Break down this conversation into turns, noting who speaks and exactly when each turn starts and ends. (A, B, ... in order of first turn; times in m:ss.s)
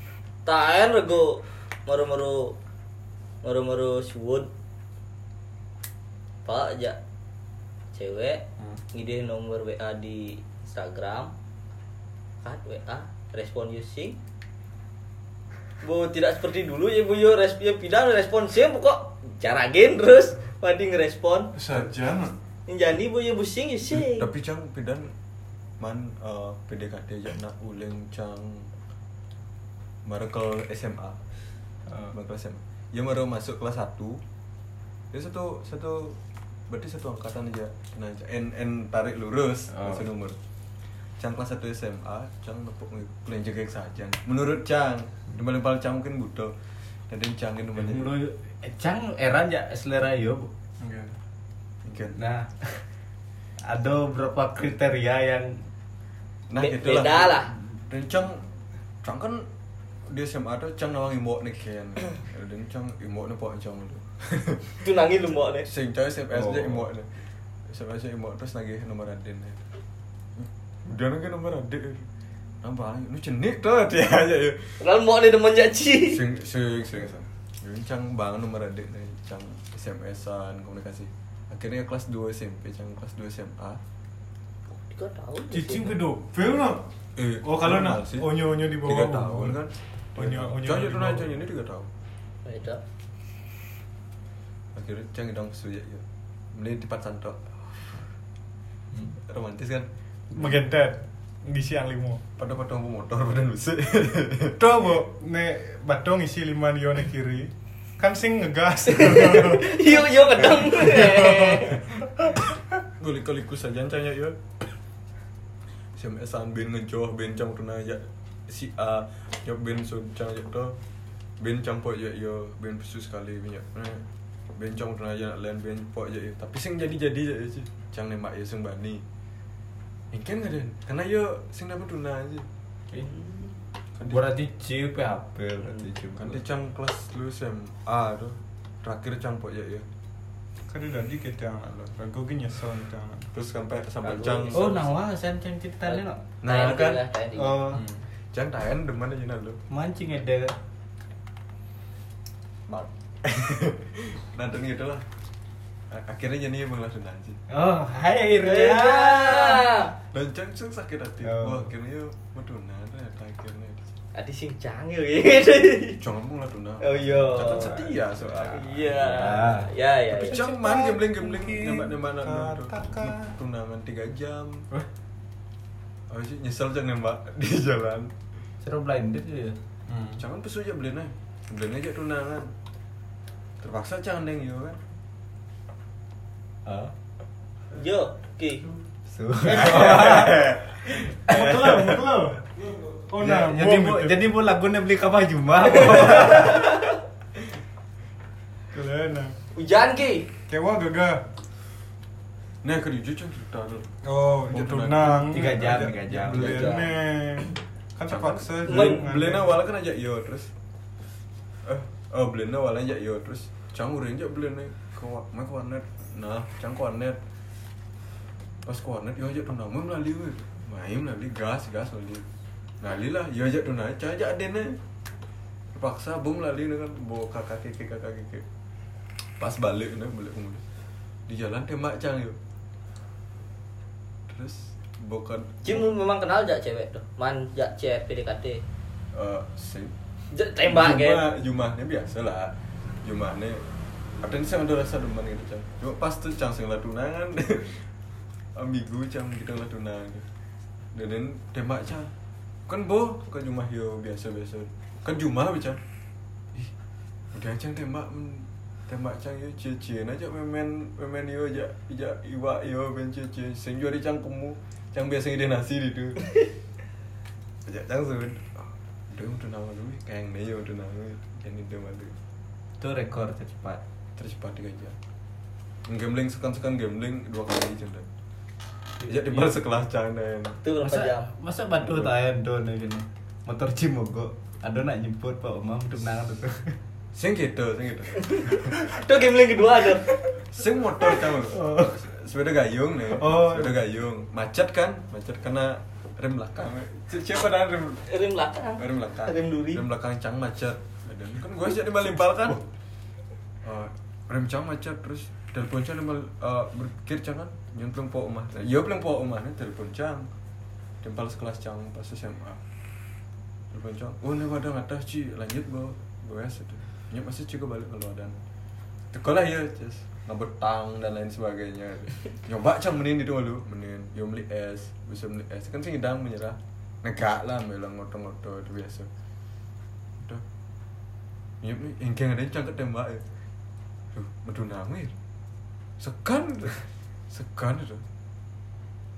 0:00.4-0:02.6 A
0:03.4-0:04.5 A
0:06.4-0:07.0 A
0:07.9-0:11.3 A
0:12.4-0:14.2 A
0:15.8-0:21.5 A
0:21.5-0:22.4 B
0:22.7-0:24.3 A
0:23.9-0:25.1 C
0:25.8-0:28.7 C
0:30.0-0:31.2 C
0:32.1-0:34.2 C
0:35.1-0:36.2 C
0:36.7-0:40.4 C
0:39.7-0:40.0 D
0:41.2-0:46.5 C
0:47.1-0:48.2 C
0:47.8-0:50.5 D
0:50.8-0:51.1 B
0:51.8-0:52.2 C
0:52.2-0:52.8 D
0:53.7-0:55.6 D
0:56.5-0:58.4 C
0:56.6-0:57.5 A
0:59.0-0:59.5 C
1:00.1-1:04.8 C
1:04.8-1:05.7 A
1:05.6-1:07.1 C
1:06.3-1:06.8 D
1:07.7-1:09.6 C
1:10.4-1:12.1 C
1:12.6-1:14.7 C
1:14.8-1:16.2 A
1:16.1-1:23.8 C
1:24.7-1:26.0 A
1:25.5-1:26.9 B
1:27.2-1:31.9 C
1:27.4-1:29.6 B
1:30.2-1:31.4 B
1:32.4-1:32.8 A
1:34.7-1:38.0 C
1:39.1-1:39.9 C
1:40.3-1:42.2 B
1:42.4-1:44.6 C
1:44.6-1:52.6 B
1:48.9-1:51.8 A
1:53.0-1:54.4 C
1:56.0-2:00.8 C
2:01.4-2:09.0 C
2:10.1-2:12.5 C
2:14.0-2:14.3 C
2:14.0-2:16.4 D
2:16.2-2:19.9 C
2:20.7-2:23.3 B
2:23.3-2:24.8 C
2:24.0-2:24.7 A
2:24.5-2:26.2 D
2:25.9-2:27.7 A
2:26.4-2:27.0 C
2:27.4-2:27.8 D
2:28.3-2:29.6 C
2:29.7-2:30.6 D
2:32.7-2:35.0 C
2:35.9-2:37.4 C
2:37.5-2:39.6 D
2:38.4-2:39.9 A
2:40.1-2:43.9 C
2:41.2-2:41.7 D
2:44.1-2:46.0 A
2:46.0-2:49.4 C
2:46.8-2:50.4 A
2:49.0-2:49.7 D
2:50.1-2:54.6 C
2:50.2-2:53.4 B
2:56.1-2:58.1 C
2:58.6-2:59.6 D
2:59.9-3:00.2 B
3:00.2-3:02.5 C
3:03.6-3:04.8 C
3:07.7-3:08.7 A
3:09.1-3:10.6 D
3:09.4-3:10.4 B
3:09.4-3:11.5 C
3:11.3-3:14.3 B
3:11.4-3:11.7 D
3:13.2-3:16.7 D
3:15.8-3:17.0 A
3:18.7-3:19.4 B
3:19.5-3:20.3 A
3:20.5-3:21.2 B
3:22.6-3:23.9 C
3:24.0-3:29.6 B
3:24.5-3:25.4 C
3:25.2-3:26.8 D
3:26.3-3:26.9 A
3:26.4-3:26.8 C
3:28.1-3:30.5 C
3:28.7-3:29.1 A
3:31.6-3:37.2 C
3:38.6-3:42.2 C
3:42.8-3:44.8 C
3:45.7-3:48.4 C
3:49.4-3:50.6 C
3:51.3-3:52.4 C
3:54.3-3:55.9 C
3:55.6-3:58.6 A
3:59.1-3:59.9 C
4:00.3-4:01.2 A
4:00.7-4:03.6 C
4:04.2-4:07.8 C
4:08.6-4:10.2 C
4:10.9-4:12.1 C
4:12.7-4:15.8 C
4:17.3-4:26.4 C
4:27.6-4:32.2 C
4:32.8-4:33.8 D
4:34.2-4:35.0 C
4:35.9-4:38.1 C
4:39.0-4:39.5 D
4:39.1-4:40.6 C
4:40.6-4:41.3 A
4:40.8-4:46.8 D
4:41.8-4:42.1 C
4:47.1-4:48.8 C
4:48.3-4:50.1 A
4:50.4-4:58.0 C
4:51.4-4:52.0 D
4:53.2-4:53.7 D
4:58.1-4:59.8 A
4:58.8-5:02.6 C
5:03.6-5:10.3 C
5:11.0-5:12.6 C
5:13.7-5:18.4 C
5:19.1-5:29.1 C
5:31.6-5:33.2 C
5:34.1-5:35.1 C
5:36.0-5:38.0 C